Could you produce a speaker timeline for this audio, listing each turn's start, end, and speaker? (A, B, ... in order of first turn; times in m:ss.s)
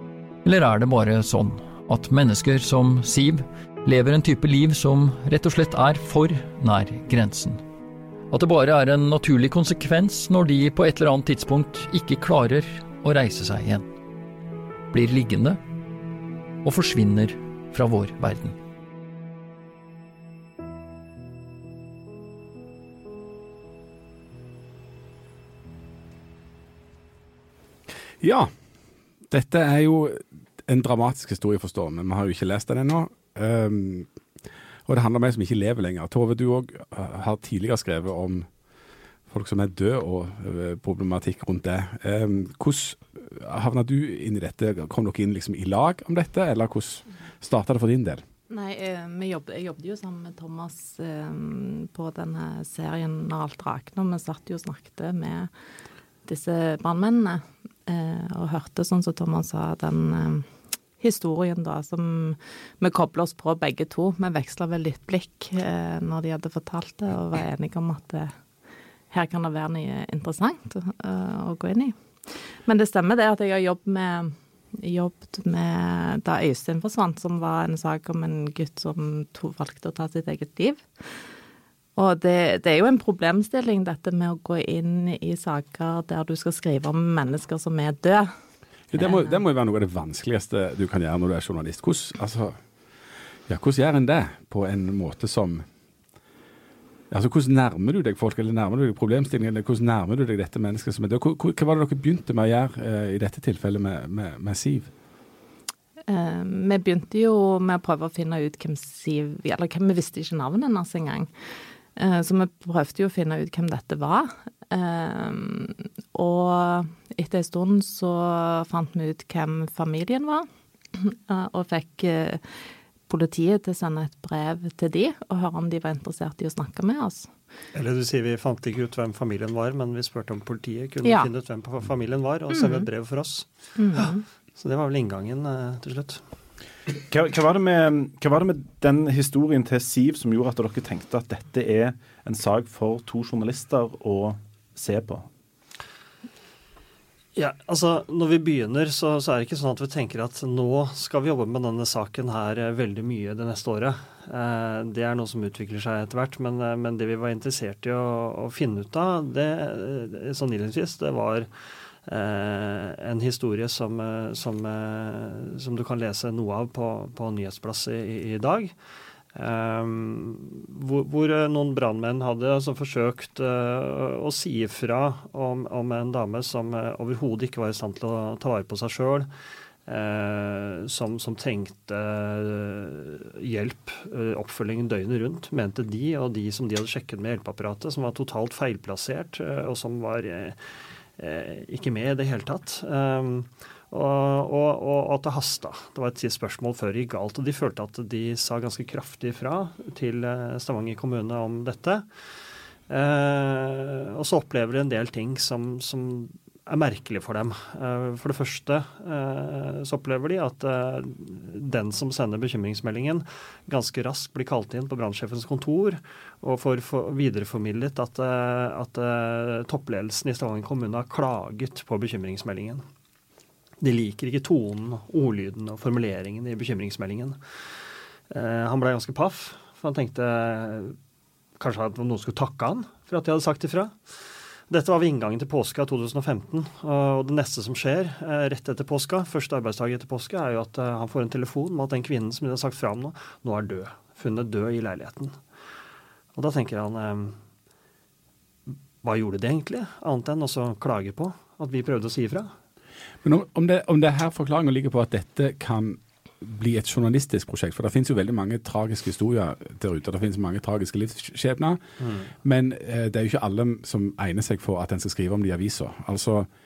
0:00.4-0:07.6 A
0:08.3-0:13.8 A
0:14.9-0:15.6 A
0:16.6-0:18.5 A
0:28.2-0:28.5 B
0:29.3-0:34.1 B
0:34.8-0:38.4 B
0:39.3-0:48.2 B
0:48.5-0:55.5 C
0:56.2-1:00.5 C
1:01.0-1:08.3 C
1:09.1-1:11.9 C
1:12.6-1:20.8 C
1:22.0-1:28.3 C
1:28.9-1:32.6 B
1:33.5-1:35.6 B
1:37.1-1:44.9 B
1:46.1-1:51.3 C
1:52.0-2:02.4 C
2:03.1-2:07.3 C
2:07.7-2:16.2 D
2:11.0-2:11.3 C
2:12.5-2:12.8 C
2:13.8-2:14.2 C
2:17.1-2:25.3 E
2:27.3-2:41.5 D
2:42.0-2:48.7 D
2:49.3-2:59.3 D
2:59.9-3:10.6 D
3:11.2-3:22.0 D
3:22.9-3:42.8 D
3:43.8-3:47.4 D
3:48.3-3:51.0 D
3:51.6-3:53.9 D
3:54.7-4:05.4 D
4:06.3-4:07.4 D
4:09.0-4:12.5 D
4:13.2-4:21.8 B
4:22.0-4:22.3 D
4:22.4-4:26.5 B